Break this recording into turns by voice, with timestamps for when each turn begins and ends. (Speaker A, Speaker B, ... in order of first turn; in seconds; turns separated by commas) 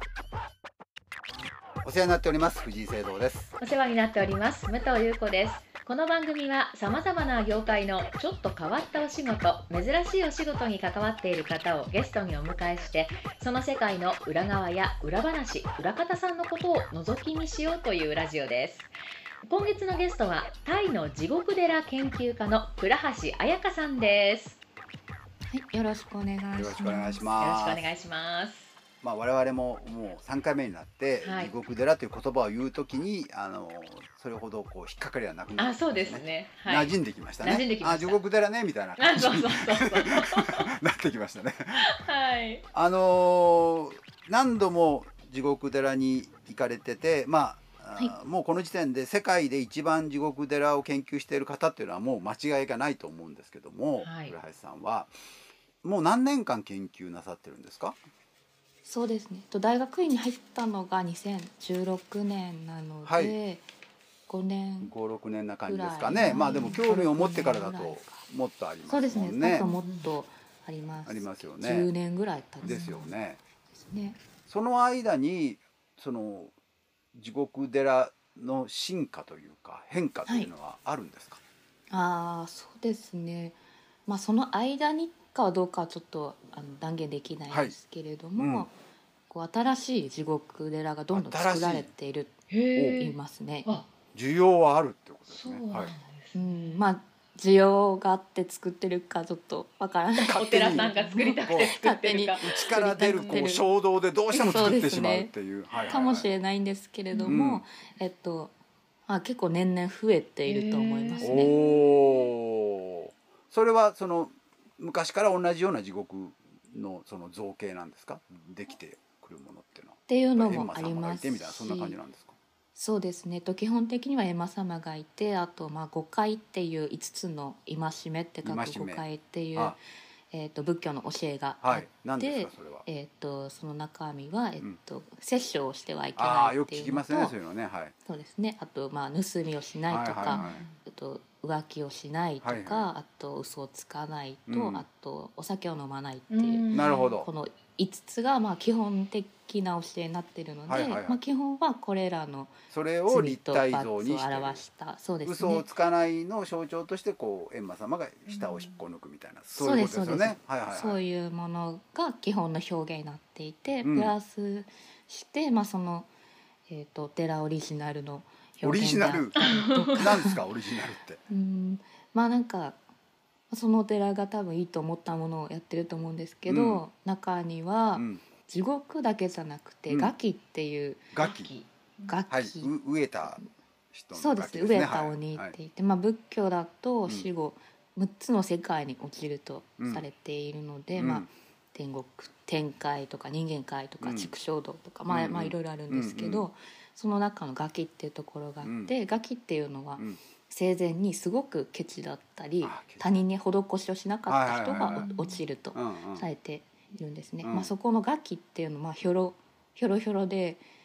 Speaker A: 1.8-3.5, Speaker B: 3.6-18.9, Speaker B: 19.4-24.6, Speaker C: 25.5-27.3, Speaker A: 26.6-27.9, Speaker B: 27.4-28.7, Speaker A: 29.0-41.9, Speaker B: 31.2-31.6, Speaker B: 35.6-38.2, Speaker B: 39.0-40.7, Speaker B: 41.8-42.6, Speaker A: 42.7-55.1, Speaker B: 54.0-54.4, Speaker A: 55.8-58.0, Speaker C: 58.8-63.6, Speaker A: 63.1-63.4, Speaker C: 64.3-64.9, Speaker A: 64.8-69.7, Speaker C: 65.7-68.2, Speaker B: 66.3-66.6, Speaker C: 68.9-73.1, Speaker B: 69.6-70.1, Speaker A: 71.1-71.9, Speaker A: 72.6-73.4, Speaker B: 72.6-73.0, Speaker C: 73.8-74.2, Speaker A: 74.5-76.5, Speaker A: 77.2-81.4, Speaker C: 81.9-88.7, Speaker A: 87.5-87.8, Speaker A: 88.4-88.7, Speaker C: 89.3-93.7, Speaker A: 91.1-91.9, Speaker B: 92.5-93.9, Speaker A: 94.1-95.9, Speaker B: 95.3-96.9, Speaker C: 96.3-103.7, Speaker B: 100.2-103.5, Speaker A: 100.2-100.9, Speaker A: 101.5-101.8, Speaker A: 102.4-106.3, Speaker C: 104.3-105.3, Speaker B: 105.8-106.0, Speaker C: 105.9-108.5, Speaker B: 107.1-107.4, Speaker A: 107.3-107.6, Speaker C: 109.1-111.5, Speaker B: 110.5-112.3, Speaker A: 111.2-122.4, Speaker C: 120.1-122.0, Speaker C: 122.8-129.8, Speaker A: 128.4-129.1, Speaker C: 130.3-137.3, Speaker A: 131.6-132.8, Speaker A: 136.2-137.9, Speaker C: 138.1-155.7, Speaker A: 139.9-140.6, Speaker B: 140.3-140.7, Speaker A: 142.4-142.9, Speaker A: 144.5-144.9, Speaker B: 146.3-147.2, Speaker A: 146.7-147.3, Speaker A: 150.7-151.2, Speaker A: 152.7-154.6, Speaker A: 155.2-161.0, Speaker B: 158.3-158.8, Speaker C: 159.6-166.1, Speaker A: 163.8-164.1, Speaker C: 166.7-170.4, Speaker A: 168.6-171.2, Speaker B: 169.4-169.9, Speaker C: 171.3-172.8, Speaker C: 173.5-181.2, Speaker A: 176.5-176.8, Speaker A: 177.9-178.2, Speaker A: 179.9-180.1, Speaker A: 181.1-181.5, Speaker B: 181.2-182.2, Speaker C: 182.1-183.5, Speaker A: 182.3-183.4, Speaker A: 183.9-185.6, Speaker C: 184.1-210.6, Speaker A: 189.8-190.1, Speaker A: 190.9-191.3, Speaker A: 194.0-194.3, Speaker A: 195.1-196.5, Speaker A: 198.6-198.9, Speaker A: 202.6-203.2, Speaker A: 204.3-205.1, Speaker B: 204.8-205.4, Speaker A: 205.7-206.3, Speaker A: 207.4-207.7